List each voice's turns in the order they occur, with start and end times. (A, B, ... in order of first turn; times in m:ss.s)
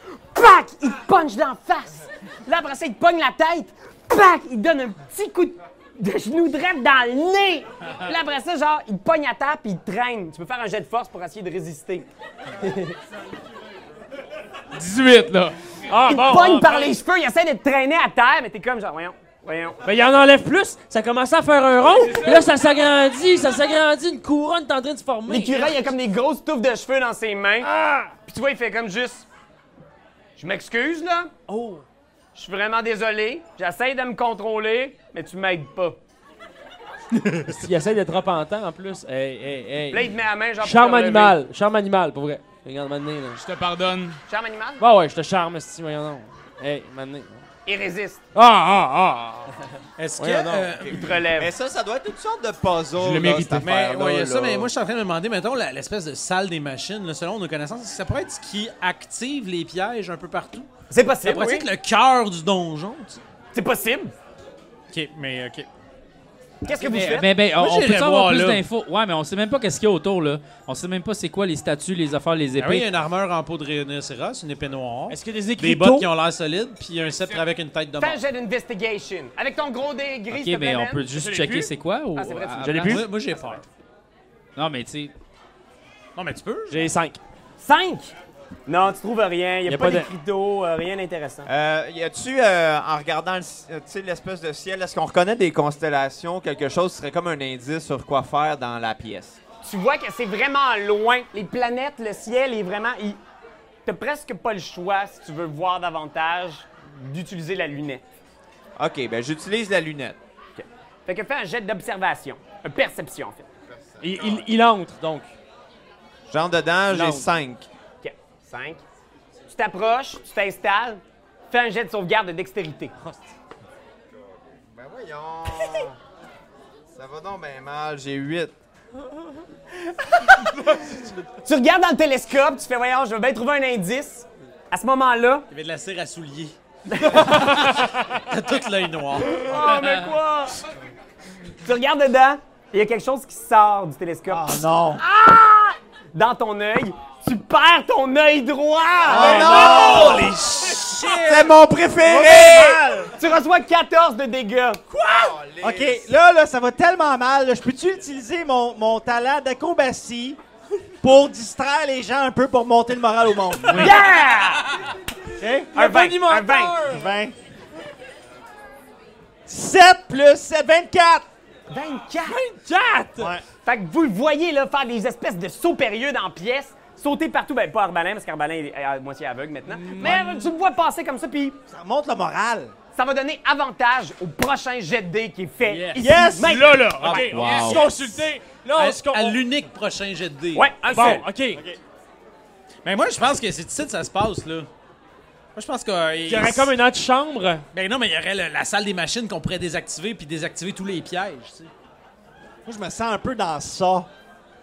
0:00.3-0:12.1 A
0:12.6-0:13.0 A
0:14.7-0:15.6 B
0:15.9-0:17.0 C
0:16.0-0:19.8 A
0:19.8-0:25.9 C
0:22.0-0:22.4 B
0:25.3-0:27.7 A
0:27.6-0:28.1 C
0:28.2-0:29.3 A
0:30.4-0:31.3 A
0:31.5-0:31.8 C
0:32.4-0:36.0 A
0:37.4-0:43.4 C
0:39.9-0:41.4 A
0:43.4-0:44.2 B
0:44.3-0:44.8 A
0:44.8-0:47.4 C
0:47.7-0:48.2 A
0:48.3-0:49.6 C
0:50.0-0:51.2 D
0:50.2-0:50.8 C
0:50.8-0:54.7 E
0:50.9-0:51.5 A
0:52.9-0:53.6 B
0:53.6-1:00.7 D
1:00.9-1:01.7 A
1:01.2-1:03.2 D
1:03.5-1:04.1 A
1:04.9-1:05.7 D
1:06.6-1:07.3 A
1:06.8-1:12.9 F
1:07.0-1:08.6 D
1:12.6-1:18.2 D
1:15.1-1:16.1 C
1:18.0-1:21.1 A
1:20.3-1:23.0 F
1:21.1-1:21.7 C
1:22.2-1:23.1 A
1:22.6-1:23.2 C
1:22.8-1:23.6 D
1:24.6-1:25.1 F
1:26.2-1:26.9 D
1:26.7-1:27.2 C
1:27.6-1:28.1 A
1:28.7-1:31.5 A
1:29.7-1:30.1 C
1:31.5-1:39.4 E
1:39.6-1:43.2 A
1:43.9-1:48.0 A
1:48.8-1:50.2 E
1:50.6-1:53.5 A
1:53.7-1:54.5 E
1:54.0-1:55.3 C
1:56.3-1:57.7 E
1:56.9-1:57.3 C
1:58.0-1:58.8 A
1:59.5-2:02.9 A
2:03.0-2:03.3 C
2:04.2-2:06.0 E
2:06.9-2:08.6 E
2:10.0-2:10.8 A
2:11.4-2:15.5 A
2:15.5-2:16.6 D
2:16.9-2:17.6 A
2:17.2-2:19.4 D
2:19.2-2:20.6 A
2:21.6-2:30.4 A
2:24.3-2:25.0 G
2:29.0-2:30.3 G
2:29.1-2:30.3 C
2:29.2-2:30.3 E
2:29.4-2:31.5 D
2:31.2-2:32.8 E
2:32.0-2:33.2 G
2:33.1-2:35.3 A
2:35.0-2:36.1 E
2:35.6-2:40.4 G
2:41.0-2:44.0 G
2:43.6-2:44.0 F
2:43.8-2:44.8 A
2:45.4-2:45.7 G
2:45.7-2:47.1 C
2:45.8-2:46.8 A
2:46.8-2:47.3 G
2:49.5-2:51.3 G
2:51.7-2:52.4 A
2:52.2-2:53.4 C
2:53.2-2:53.4 G
2:53.6-3:01.6 A
2:59.7-3:00.5 C
3:01.7-3:02.7 G
3:03.0-3:07.3 A
3:05.7-3:09.4 C
3:06.0-3:06.8 G
3:07.0-3:07.3 D
3:07.2-3:07.9 F
3:07.4-3:07.8 B
3:08.8-3:10.7 D
3:10.5-3:11.3 A
3:10.8-3:11.6 C
3:11.5-3:11.8 G
3:12.8-3:14.7 D
3:15.6-3:16.8 D
3:16.2-3:17.7 C
3:17.7-3:21.7 D
3:22.6-3:24.1 G